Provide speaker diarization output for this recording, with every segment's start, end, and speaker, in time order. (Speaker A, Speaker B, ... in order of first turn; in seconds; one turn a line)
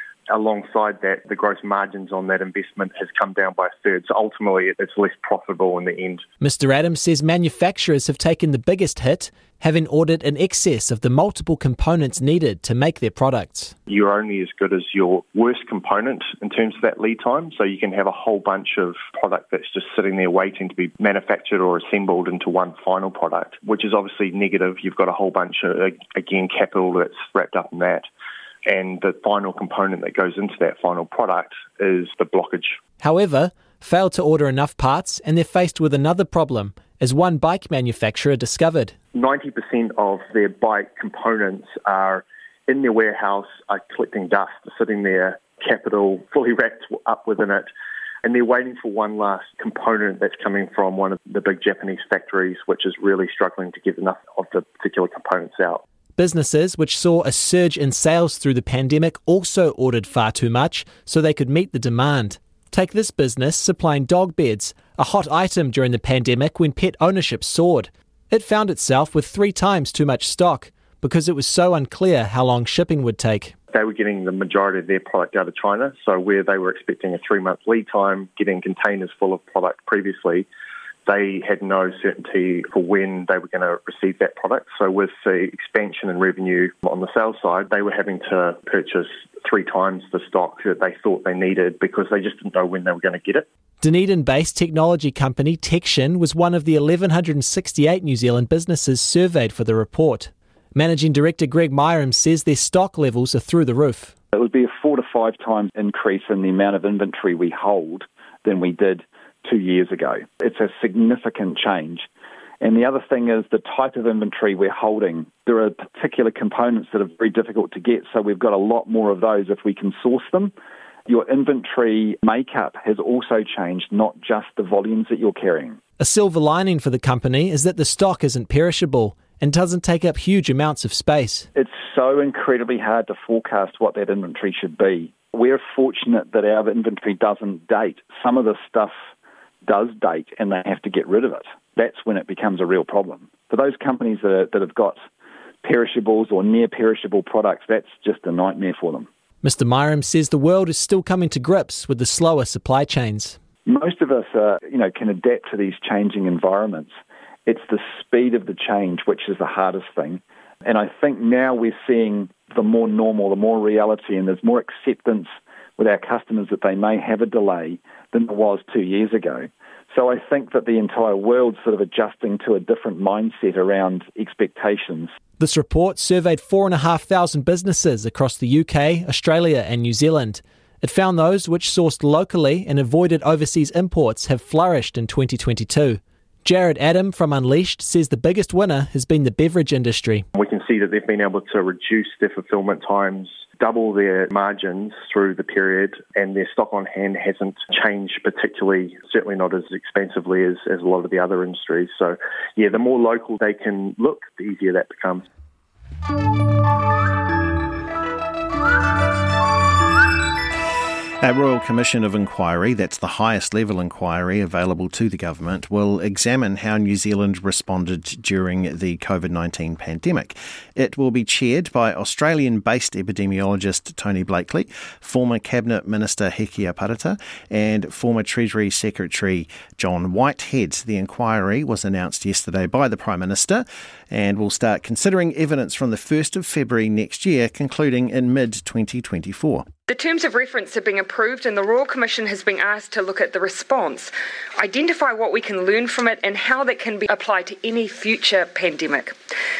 Speaker A: 0.3-6.2
Speaker B: 6.4-13.7
Speaker A: 13.9-28.1
Speaker A: 28.6-32.8
Speaker B: 33.0-38.9
Speaker A: 39.1-47.7
Speaker A: 48.2-55.8
Speaker B: 56.2-73.5
Speaker A: 73.7-80.5
Speaker A: 81.0-93.5
Speaker B: 93.8-104.1
Speaker C: 104.3-112.0
Speaker C: 112.6-120.5
Speaker C: 121.1-125.8
Speaker B: 126.0-131.5
Speaker C: 131.5-138.9
Speaker C: 139.7-145.0
Speaker C: 145.6-149.1
Speaker B: 149.4-153.4
Speaker C: 153.7-156.9
Speaker C: 157.5-175.1
Speaker B: 175.4-190.3
Speaker A: 190.3-205.2
Speaker D: 211.2-239.7
Speaker E: 239.9-249.2